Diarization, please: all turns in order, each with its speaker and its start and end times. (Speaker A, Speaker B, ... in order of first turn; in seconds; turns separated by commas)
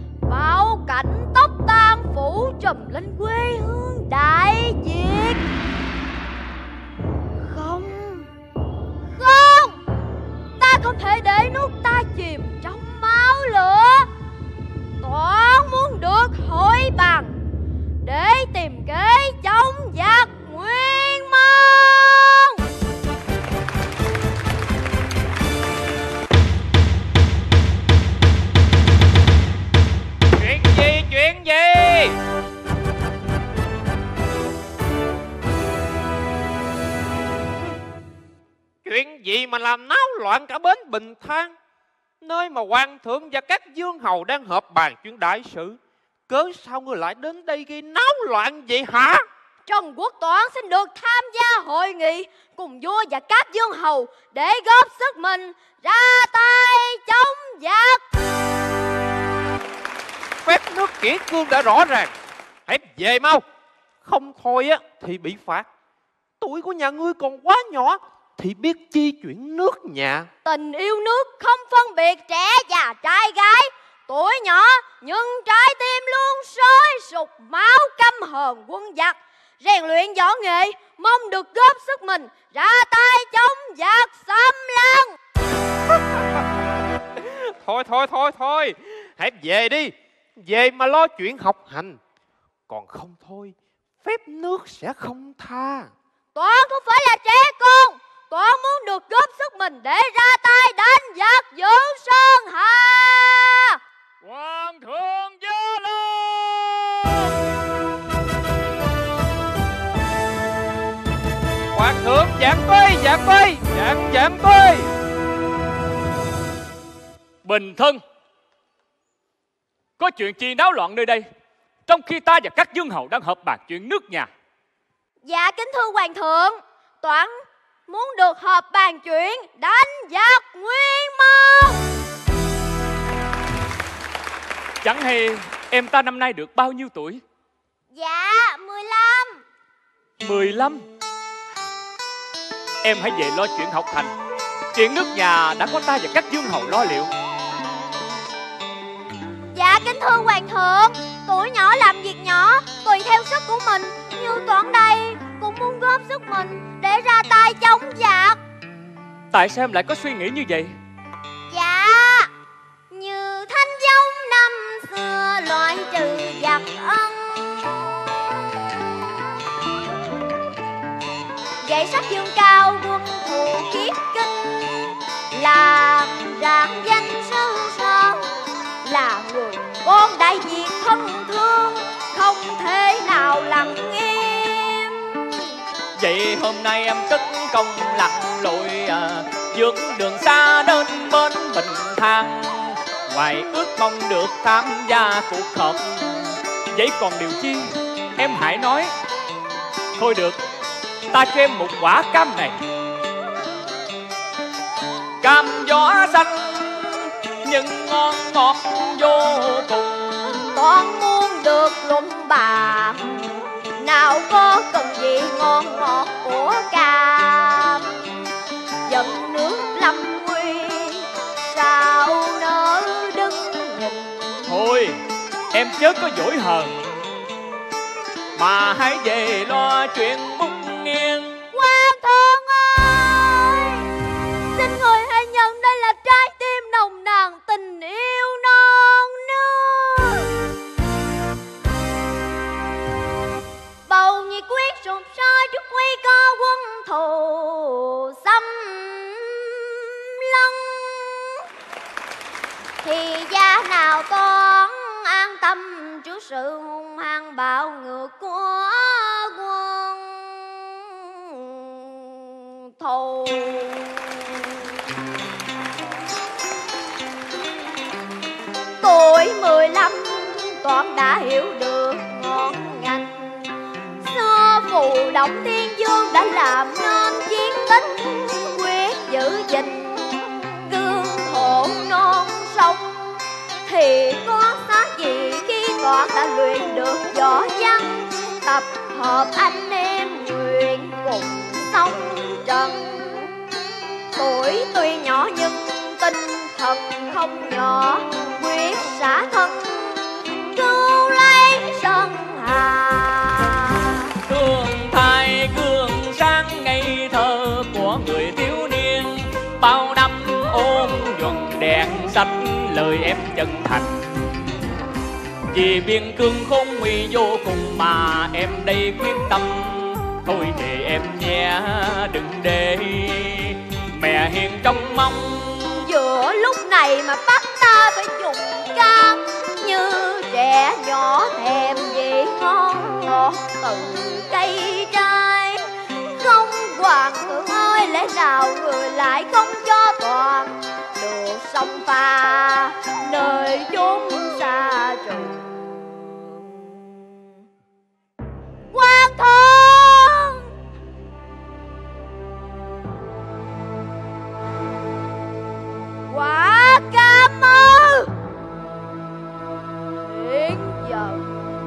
Speaker A: 0.3-5.4, Speaker A: 7.6-7.9, Speaker A: 9.2-9.8, Speaker A: 10.6-14.1, Speaker A: 15.0-17.4, Speaker A: 18.0-22.6, Speaker B: 30.4-32.1, Speaker B: 38.9-41.5, Speaker B: 42.2-49.2, Speaker A: 49.7-58.0, Speaker B: 60.5-62.1, Speaker B: 62.7-63.4, Speaker B: 64.0-65.7, Speaker B: 66.4-70.3, Speaker A: 70.5-85.1, Speaker B: 87.6-92.0, Speaker B: 92.7-95.9, Speaker A: 96.4-103.7, Speaker C: 104.2-106.2, Speaker B: 111.8-114.9, Speaker C: 117.4-118.0, Speaker C: 120.0-121.2, Speaker C: 121.9-124.3, Speaker A: 125.3-131.8, Speaker C: 134.8-137.2, Speaker C: 140.2-140.8, Speaker C: 142.8-144.1, Speaker C: 144.7-147.1, Speaker A: 149.6-158.4, Speaker C: 159.3-160.7, Speaker A: 163.4-167.1, Speaker A: 171.7-174.3, Speaker A: 175.3-178.3, Speaker A: 178.8-184.8, Speaker C: 186.0-198.9, Speaker C: 200.0-200.4, Speaker C: 201.1-202.6, Speaker C: 205.2-206.8, Speaker C: 207.4-210.2, Speaker A: 210.5-213.1, Speaker A: 213.8-217.8, Speaker A: 218.9-224.2, Speaker C: 224.5-225.0, Speaker C: 225.5-226.8, Speaker C: 228.4-231.4, Speaker A: 231.6-233.6, Speaker A: 234.6-240.2, Speaker A: 243.9-249.2, Speaker A: 250.2-251.1, Speaker A: 252.8-260.4, Speaker A: 262.6-264.1, Speaker A: 268.8-273.1, Speaker A: 274.0-279.8, Speaker A: 280.7-282.9, Speaker A: 283.7-293.2, Speaker A: 294.1-299.7, Speaker A: 300.5-303.9, Speaker C: 304.3-314.0, Speaker C: 315.5-325.6, Speaker A: 325.8-335.6, Speaker A: 336.2-345.3, Speaker A: 348.7-350.3, Speaker A: 356.1-358.0, Speaker A: 360.1-361.2